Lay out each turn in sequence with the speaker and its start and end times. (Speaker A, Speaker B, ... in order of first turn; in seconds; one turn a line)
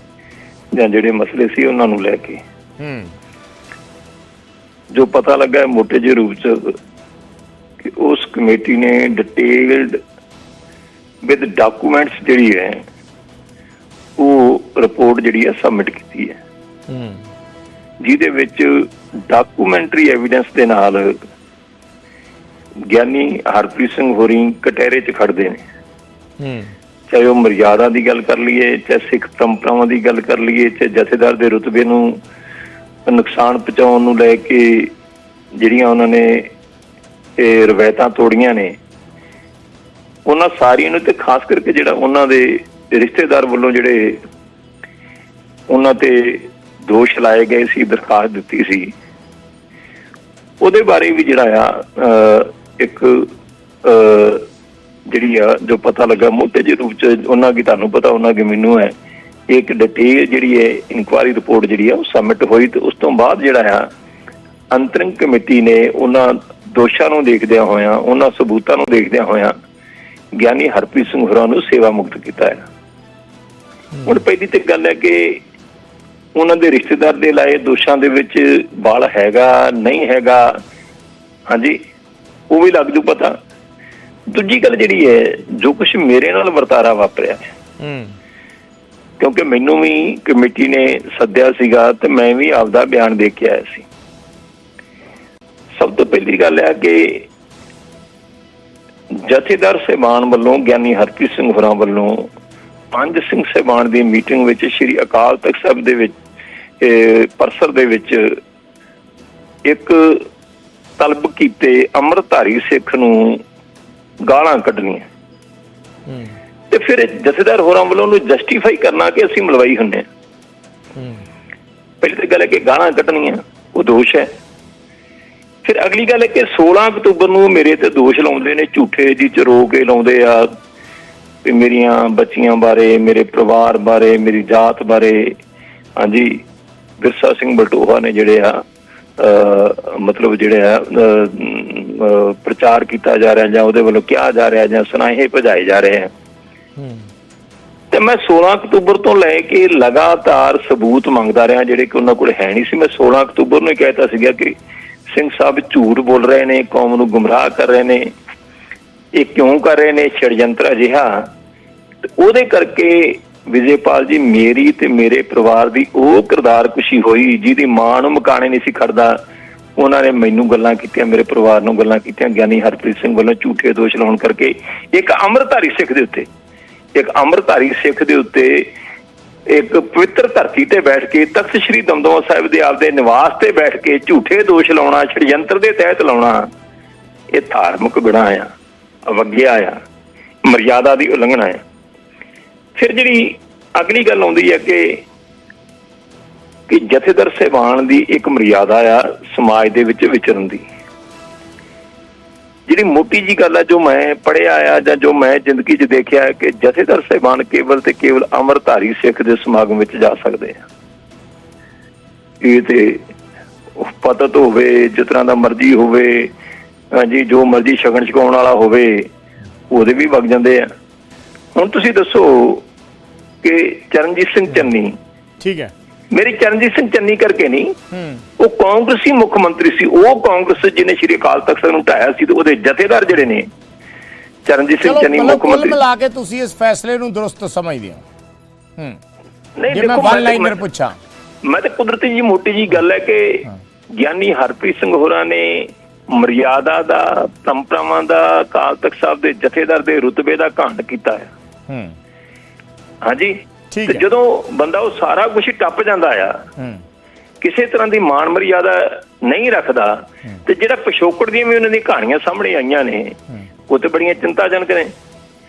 Speaker A: 0.7-2.4
Speaker B: 2.8-3.1
Speaker A: 4.9-6.8
Speaker A: 7.8-10.0
Speaker A: 11.2-12.8
Speaker A: 14.2-16.4
Speaker B: 16.9-17.2
Speaker A: 18.0-21.2
Speaker A: 22.9-25.6
Speaker B: 26.4-26.7
Speaker A: 27.1-32.2
Speaker A: 33.0-34.9
Speaker A: 35.6-36.5
Speaker A: 37.4-38.8
Speaker A: 40.2-44.2
Speaker A: 45.7-48.9
Speaker A: 50.6-53.3
Speaker A: 53.8-54.5
Speaker A: 55.1-58.9
Speaker A: 59.5-63.9
Speaker A: 64.7-69.5
Speaker A: 70.4-72.6
Speaker A: 74.0-75.4
Speaker A: 76.3-80.6
Speaker A: 81.5-81.8
Speaker A: 82.5-83.4
Speaker A: 84.3-87.5
Speaker B: 87.8-88.2
Speaker A: 89.2-93.8
Speaker A: 95.8-97.2
Speaker A: 99.3-102.3
Speaker A: 102.9-106.2
Speaker A: 106.8-108.4
Speaker A: 109.7-110.3
Speaker A: 111.0-113.4
Speaker A: 114.3-115.1
Speaker B: 116.1-116.3
Speaker A: 116.7-120.0
Speaker B: 121.0-121.2
Speaker A: 122.0-124.3
Speaker A: 125.6-130.5
Speaker A: 131.4-135.4
Speaker A: 136.0-136.4
Speaker A: 137.0-138.6
Speaker A: 139.2-146.1
Speaker B: 146.8-147.1
Speaker A: 147.9-154.5
Speaker A: 155.1-158.1
Speaker A: 159.2-161.3
Speaker A: 162.2-169.2
Speaker A: 169.8-176.3
Speaker A: 176.9-178.7
Speaker A: 179.5-186.5
Speaker A: 187.3-188.5
Speaker A: 189.0-189.8
Speaker A: 190.4-191.6
Speaker A: 192.8-195.0
Speaker A: 196.7-200.6
Speaker A: 202.7-210.6
Speaker A: 212.4-213.0
Speaker A: 213.8-216.3
Speaker A: 216.9-219.1
Speaker A: 219.7-220.7
Speaker A: 221.5-222.7
Speaker A: 223.4-225.0
Speaker B: 225.4-225.7
Speaker A: 226.1-227.7
Speaker B: 227.9-228.2
Speaker A: 228.4-233.5
Speaker A: 234.4-235.8
Speaker B: 234.8-238.0
Speaker A: 239.6-240.6
Speaker B: 239.7-241.0
Speaker A: 241.4-243.4
Speaker A: 244.0-251.3
Speaker B: 251.7-251.9
Speaker A: 253.0-256.4
Speaker B: 253.7-254.0
Speaker A: 257.4-263.2
Speaker A: 263.7-264.9